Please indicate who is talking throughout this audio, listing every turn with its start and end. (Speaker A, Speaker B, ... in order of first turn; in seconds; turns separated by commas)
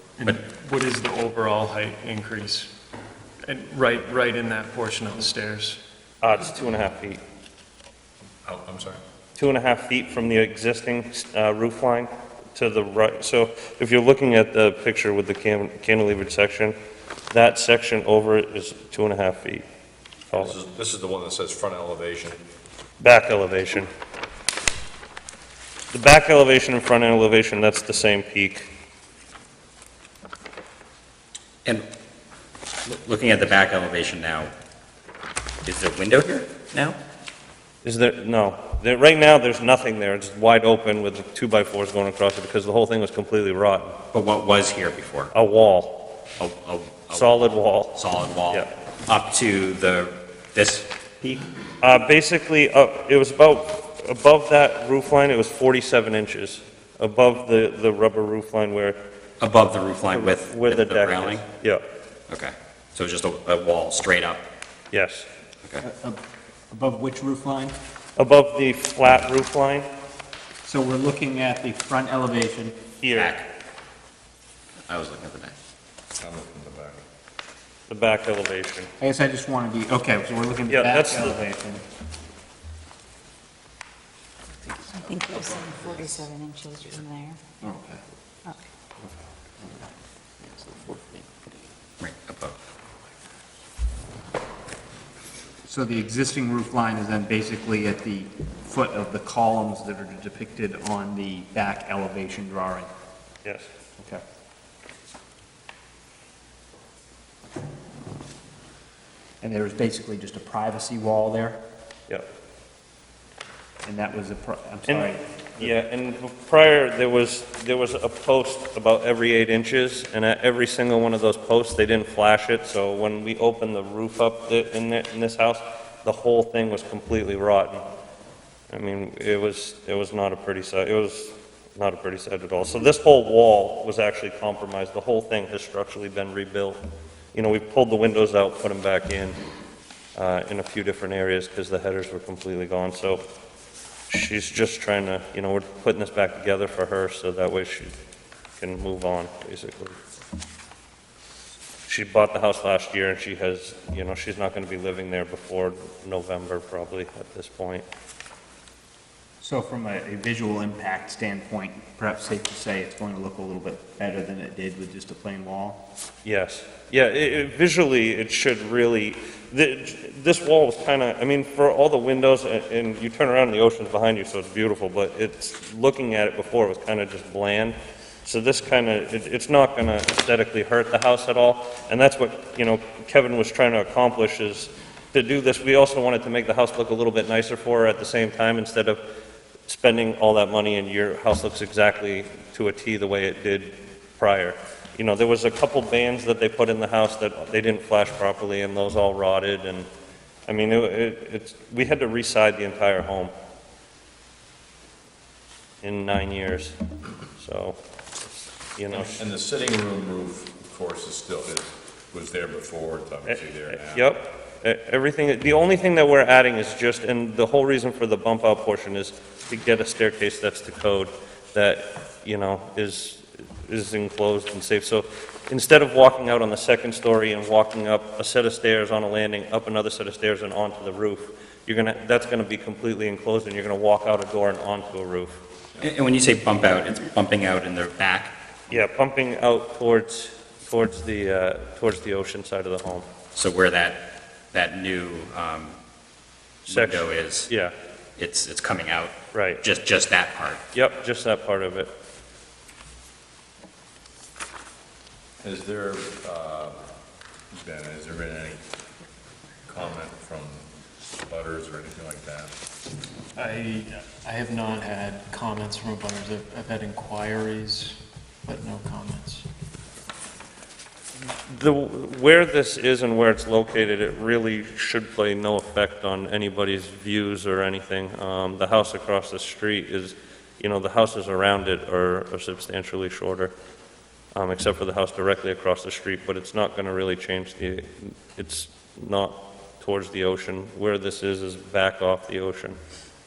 Speaker A: 0.2-2.7, Speaker A: 3.4-5.8, Speaker B: 6.2-7.2, Speaker C: 8.4-9.0, Speaker B: 9.4-16.7, Speaker B: 17.3-19.6, Speaker C: 20.3-22.4, Speaker B: 23.0-23.9, Speaker B: 25.9-28.7, Speaker D: 32.8-34.5, Speaker D: 35.6-37.0, Speaker B: 37.8-44.0, Speaker D: 44.1-45.3, Speaker B: 45.3-46.1, Speaker D: 46.4-47.3, Speaker B: 47.1-48.0, Speaker D: 47.9-50.9, Speaker B: 51.2-59.0, Speaker D: 59.4-61.5, Speaker B: 60.1-61.8, Speaker D: 62.3-64.5, Speaker B: 64.9-65.3, Speaker E: 65.8-66.2, Speaker E: 66.7-67.8, Speaker B: 68.2-69.9, Speaker E: 70.6-72.8, Speaker B: 73.0-73.4, Speaker D: 73.1-73.5, Speaker D: 74.9-75.5, Speaker C: 76.2-77.0, Speaker B: 77.9-78.9, Speaker E: 79.0-81.8, Speaker B: 80.7-81.4, Speaker F: 84.9-87.6, Speaker E: 87.6-88.0, Speaker D: 92.0-92.6, Speaker E: 95.6-102.9, Speaker B: 103.4-103.7, Speaker E: 109.4-111.6, Speaker E: 113.8-115.7, Speaker B: 114.9-127.8, Speaker B: 128.7-136.8, Speaker B: 137.3-139.4, Speaker B: 140.2-143.2, Speaker B: 144.1-147.9, Speaker B: 148.6-150.0, Speaker B: 151.9-157.8, Speaker E: 159.4-165.8, Speaker B: 166.2-189.0, Speaker B: 189.7-199.9, Speaker B: 200.5-203.3, Speaker B: 205.8-206.8, Speaker B: 207.4-209.2, Speaker C: 208.9-214.0, Speaker B: 213.3-235.4, Speaker D: 235.8-238.3, Speaker B: 238.7-243.1, Speaker D: 243.3-245.8, Speaker D: 246.6-247.5, Speaker B: 246.7-247.7, Speaker D: 248.2-250.6, Speaker B: 249.3-249.6, Speaker B: 250.7-251.9, Speaker C: 255.4-256.8, Speaker C: 257.6-258.6, Speaker C: 259.7-260.6, Speaker C: 261.2-262.5, Speaker A: 263.4-269.4, Speaker B: 271.4-283.5, Speaker B: 284.4-292.8